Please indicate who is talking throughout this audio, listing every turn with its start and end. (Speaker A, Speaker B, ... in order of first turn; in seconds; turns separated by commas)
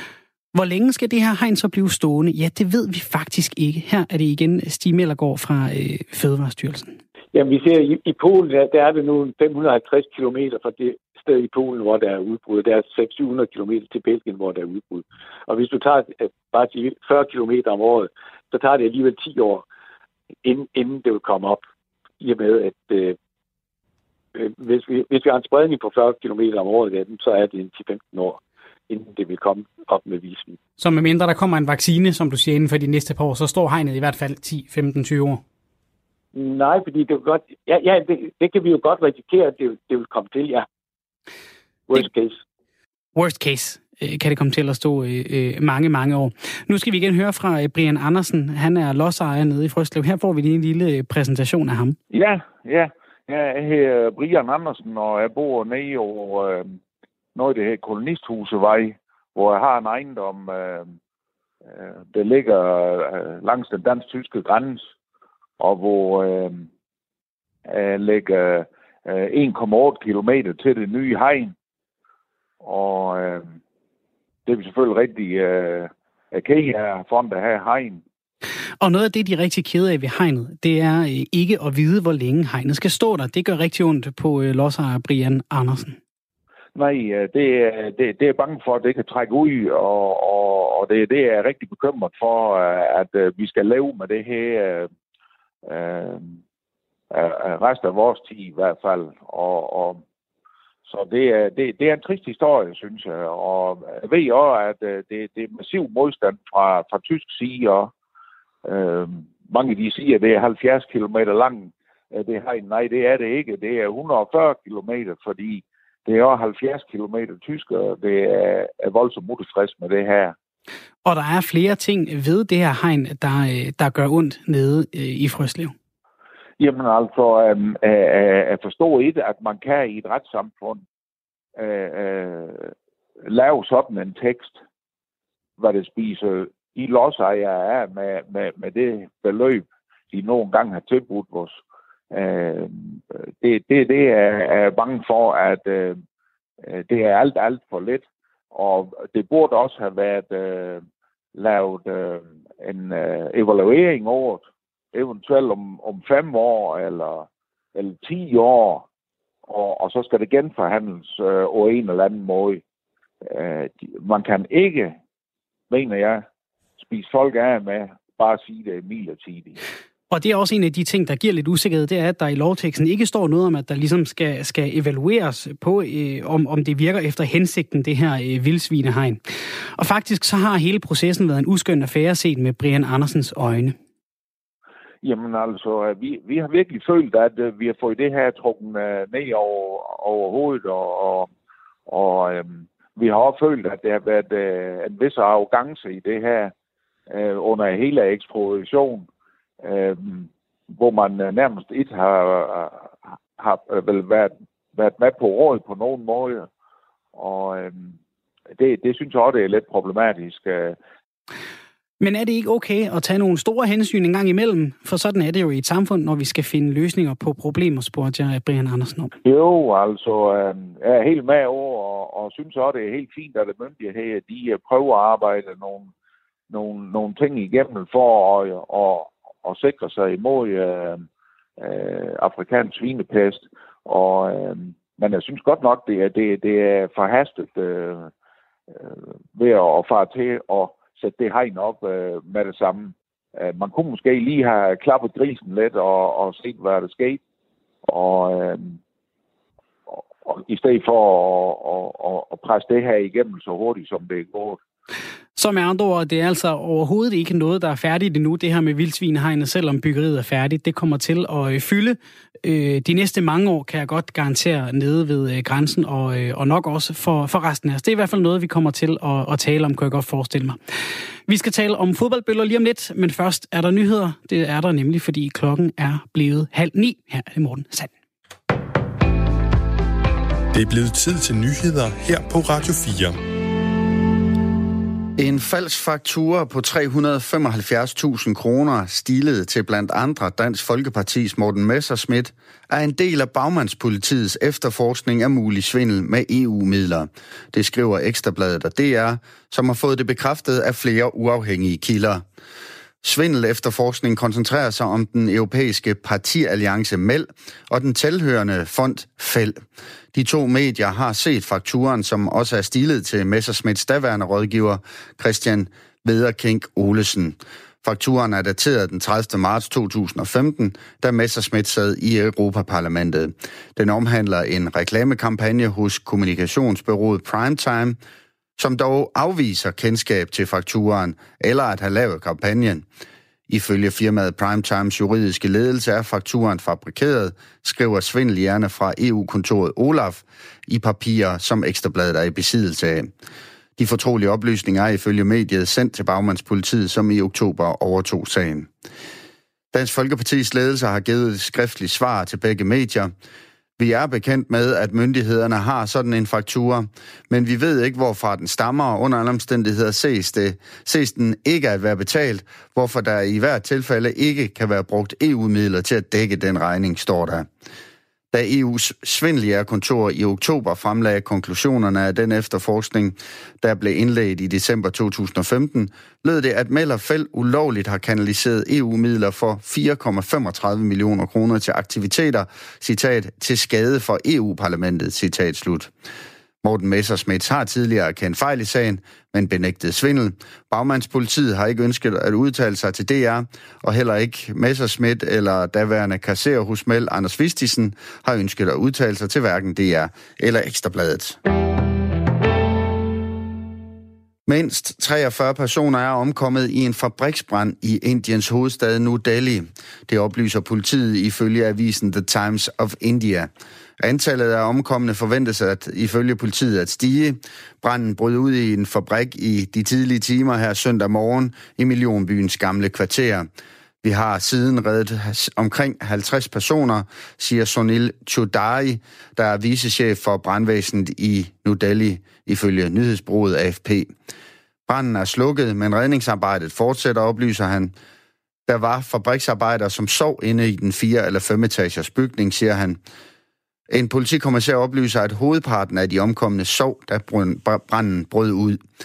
Speaker A: 0.5-7.0, Speaker B: 7.3-19.6, Speaker B: 20.4-21.6, Speaker B: 22.2-23.1, Speaker B: 24.3-30.6, Speaker A: 30.8-35.4, Speaker B: 36.3-40.6, Speaker B: 41.9-42.4, Speaker A: 43.1-52.0, Speaker C: 52.1-56.8, Speaker C: 57.3-60.9, Speaker C: 61.7-64.8, Speaker C: 65.6-66.7, Speaker C: 67.7-71.5, Speaker C: 72.6-73.5, Speaker C: 74.5-78.0, Speaker A: 78.8-86.0, Speaker C: 86.7-94.9, Speaker C: 95.7-96.4, Speaker C: 97.1-100.0, Speaker C: 100.8-107.9, Speaker C: 108.6-120.3, Speaker A: 121.0-125.7, Speaker C: 126.6-130.8, Speaker C: 131.6-132.7, Speaker C: 133.2-134.6, Speaker C: 135.6-141.6, Speaker C: 142.1-146.0, Speaker C: 146.7-150.8, Speaker C: 151.3-158.8, Speaker C: 159.4-162.6, Speaker C: 163.2-164.9, Speaker C: 165.7-166.2, Speaker C: 166.8-169.6, Speaker A: 170.1-179.2, Speaker A: 179.8-183.8, Speaker C: 185.0-191.3, Speaker C: 191.9-196.5, Speaker C: 197.1-199.1, Speaker C: 199.6-206.5, Speaker C: 207.1-207.9, Speaker C: 208.6-210.8, Speaker A: 212.0-219.1, Speaker C: 219.2-225.9, Speaker C: 226.5-231.0, Speaker C: 231.6-238.1, Speaker C: 238.7-247.2, Speaker C: 247.8-248.8, Speaker C: 249.9-254.6, Speaker A: 255.4-270.6, Speaker A: 271.3-277.9, Speaker D: 280.5-283.2, Speaker E: 285.2-302.2, Speaker E: 303.0-309.6, Speaker E: 310.1-328.0, Speaker E: 328.6-332.9, Speaker E: 333.5-343.1, Speaker E: 343.8-348.7, Speaker E: 349.7-353.1, Speaker E: 353.8-367.5, Speaker E: 368.3-385.9, Speaker E: 386.6-401.4, Speaker E: 404.5-423.5, Speaker E: 424.0-434.1, Speaker E: 434.9-437.9, Speaker E: 438.7-443.0, Speaker E: 443.9-448.8